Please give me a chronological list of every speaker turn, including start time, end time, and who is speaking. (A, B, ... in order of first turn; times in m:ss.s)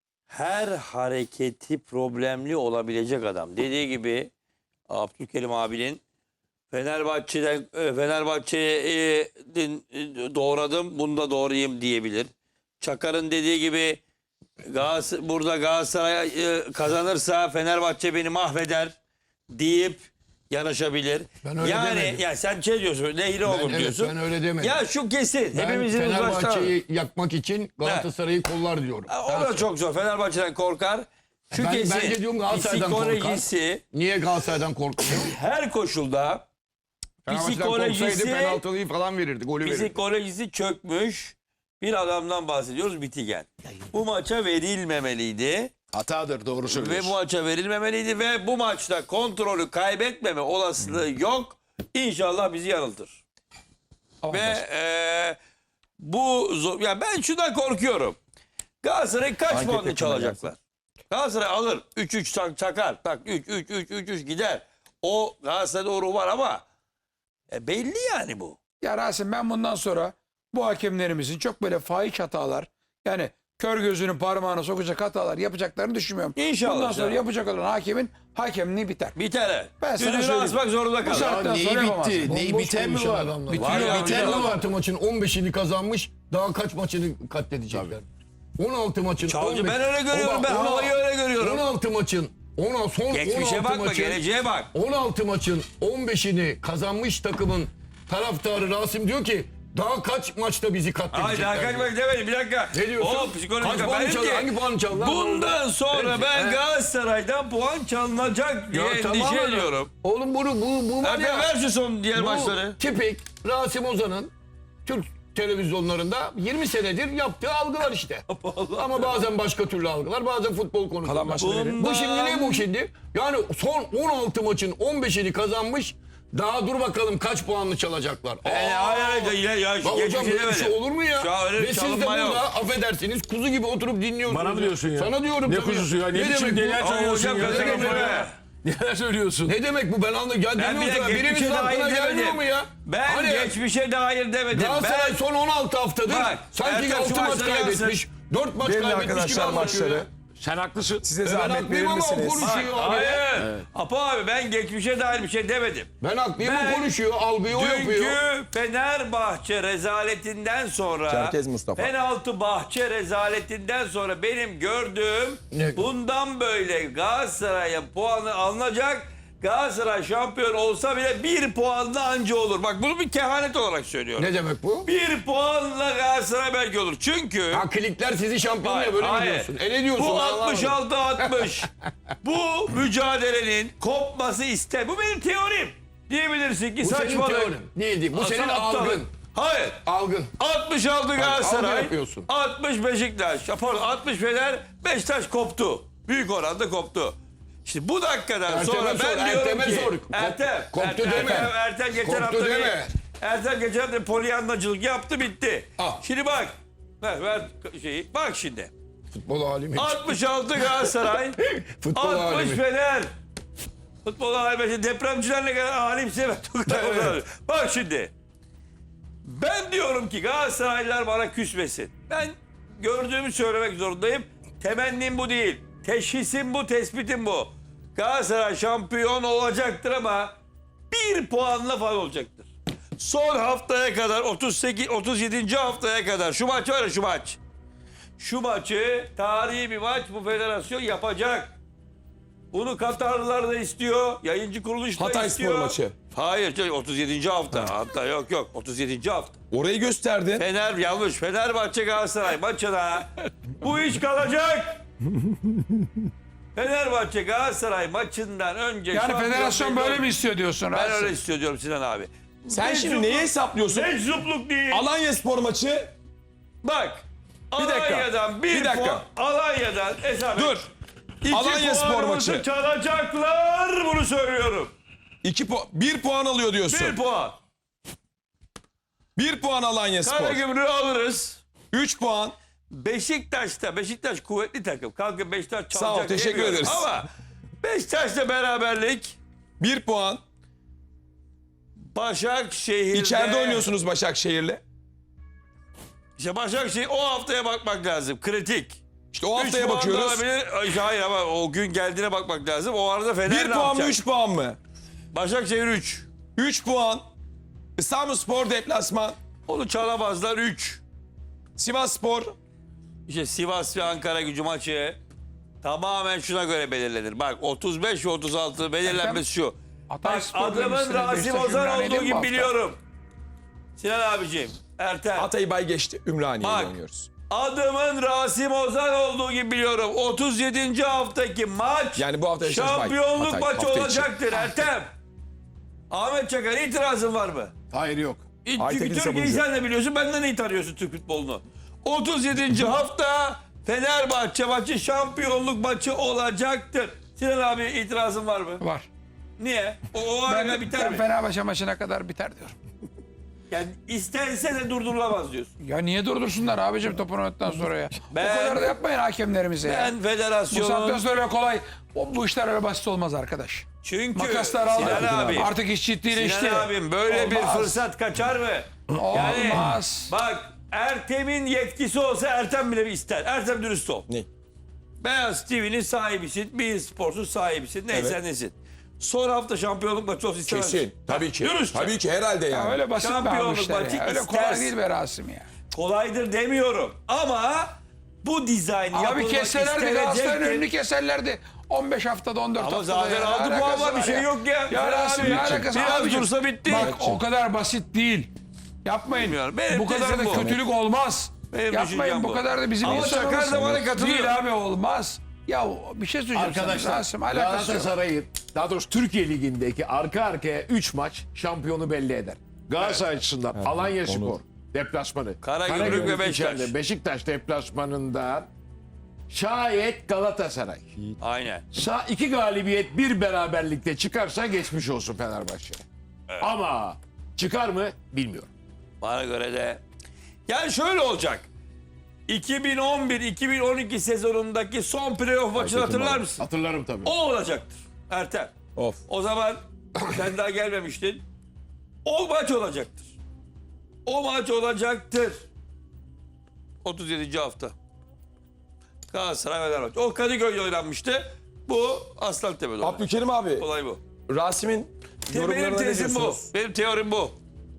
0:00.3-0:04.3 A
0:04.9-0:06.0 A
0:06.7-0:14.0 A
0:14.6-0:19.0 A
0:19.5-0:26.8 A
0:21.4-0:22.2 B
0:23.4-0:24.8 B
0:25.5-0:29.6 B
0:29.1-0:33.8 A
0:31.5-0:35.3 B
0:35.1-0:36.4 A
0:37.3-0:40.0 B
0:37.3-0:38.6 A
0:39.6-0:45.7 A
0:45.9-0:47.2 C
0:46.7-0:53.2 A
0:54.2-0:54.6 D
0:54.3-0:55.4 A
0:56.0-0:58.2 A
0:58.8-1:00.6 A
0:59.5-1:00.4 E
1:01.1-1:06.6 A
1:07.5-1:08.6 A
1:08.8-1:19.2 D
1:16.4-1:17.2 A
1:19.1-1:21.4 A
1:19.8-1:22.3 D
1:21.1-1:24.7 C
1:22.2-1:28.0 B
1:23.5-1:24.1 D
1:23.5-1:24.6 A
1:28.6-1:34.2 B
1:29.3-1:31.7 A
1:33.1-1:34.7 A
1:34.7-1:41.9 B
1:41.1-1:49.9 A
1:42.7-1:46.6 B
1:48.7-1:51.5 B
1:51.0-1:52.8 A
1:52.2-1:54.3 B
1:54.9-1:58.3 B
1:58.3-1:59.2 A
1:58.8-2:18.2 B
2:01.0-2:01.8 E
2:01.4-2:02.7 A
2:08.4-2:12.5 A
2:14.3-2:19.5 C
2:16.8-2:18.3 A
2:19.4-2:23.6 B
2:20.6-2:25.2 A
2:24.5-2:30.1 B
2:26.1-2:28.0 A
2:28.6-2:30.1 E
2:30.4-2:31.1 C
2:31.0-2:32.7 E
2:31.2-2:33.2 B
2:32.4-2:54.3 A
2:33.4-2:33.6 C
2:36.0-2:38.2 B
2:41.1-2:41.9 E
2:45.5-2:45.9 B
2:54.2-2:54.9 B
2:54.8-2:57.6 A
2:57.5-3:01.5 B
2:58.6-3:01.7 A
3:02.2-3:07.6 A
3:06.8-3:09.1 B
3:08.1-3:09.8 A
3:09.8-3:10.3 B
3:10.4-3:28.7 A
3:11.2-3:12.3 B
3:18.5-3:22.9 B
3:21.1-3:21.4 E
3:29.1-3:32.6 B
3:29.8-3:31.4 A
3:32.0-3:33.1 A
3:34.0-3:38.1 A
3:36.7-3:37.2 B
3:39.2-3:50.4 A
3:50.9-3:57.4 A
3:58.2-4:01.6 A
4:02.5-4:09.4 A
4:05.0-4:06.0 E
4:09.5-4:10.4 E
4:10.4-4:14.8 A
4:16.6-4:20.1 A
4:18.9-4:21.2 D
4:20.7-4:24.8 A
4:22.5-4:24.0 E
4:24.7-4:25.9 E
4:26.6-4:30.7 A
4:27.6-4:29.0 E
4:30.4-4:30.7 E
4:31.2-4:34.7 A
4:31.3-4:32.4 E
4:35.2-4:37.0 E
4:36.7-4:37.4 A
4:39.2-4:40.4 E
4:40.0-4:41.4 A
4:41.7-4:42.4 E
4:42.7-4:47.1 A
4:45.7-4:46.9 E
4:47.6-4:49.2 A
4:49.6-4:50.2 E
4:51.9-4:53.7 A
4:52.9-4:54.6 E
4:56.2-4:58.8 A
4:59.1-5:00.2 E
4:59.3-5:04.0 A
5:03.3-5:04.6 E
5:05.1-5:06.1 A
5:06.4-5:07.1 E
5:07.8-5:09.2 E
5:09.5-5:10.8 A
5:11.6-5:12.4 E
5:13.1-5:15.0 A
5:15.6-5:22.8 A
5:18.8-5:19.2 D
5:19.9-5:22.5 D
5:23.8-5:25.3 A
5:25.2-5:27.1 E
5:26.4-5:26.8 A
5:27.3-5:34.9 A
5:32.0-5:34.1 E
5:35.9-5:37.5 A
5:37.7-5:38.2 C
5:38.4-5:48.6 A
5:38.6-5:39.4 E
5:48.6-5:48.9 D
5:49.4-5:51.0 A
5:50.2-5:52.6 D
5:53.5-5:55.5 A
5:55.6-6:00.0 D
5:58.1-5:58.7 A
5:59.6-6:01.0 A
6:00.5-6:07.8 D
6:03.8-6:05.5 A
6:05.0-6:05.3 E
6:06.1-6:14.1 A
6:08.9-6:10.1 D
6:09.1-6:09.8 E
6:15.0-6:22.0 A
6:20.5-6:22.8 E
6:22.5-6:25.5 D
6:23.0-6:24.7 A
6:25.7-6:30.6 A
6:28.9-6:38.3 D
6:32.6-6:36.9 A
6:35.2-6:35.8 E
6:36.7-6:37.2 E
6:38.8-6:47.9 D
6:39.1-6:40.5 A
6:40.3-6:40.6 E
6:41.5-6:44.4 A
6:46.3-6:58.5 C
6:53.6-6:54.4 E
6:55.4-6:56.7 A
6:55.8-6:56.1 E
6:59.3-7:00.9 C
7:01.2-7:01.7 A
7:01.7-7:05.8 C
7:06.4-7:08.5 C
7:09.0-7:09.8 A
7:10.5-7:11.5 A
7:12.3-7:16.5 A
7:15.6-7:16.2 E
7:16.4-7:17.1 C
7:17.0-7:18.5 A
7:19.1-7:21.2 A
7:22.0-7:23.1 A
7:24.1-7:25.5 A
7:26.8-7:27.8 A
7:29.1-7:34.0 A
7:32.8-7:33.6 E
7:34.3-7:36.4 E
7:35.3-7:37.4 A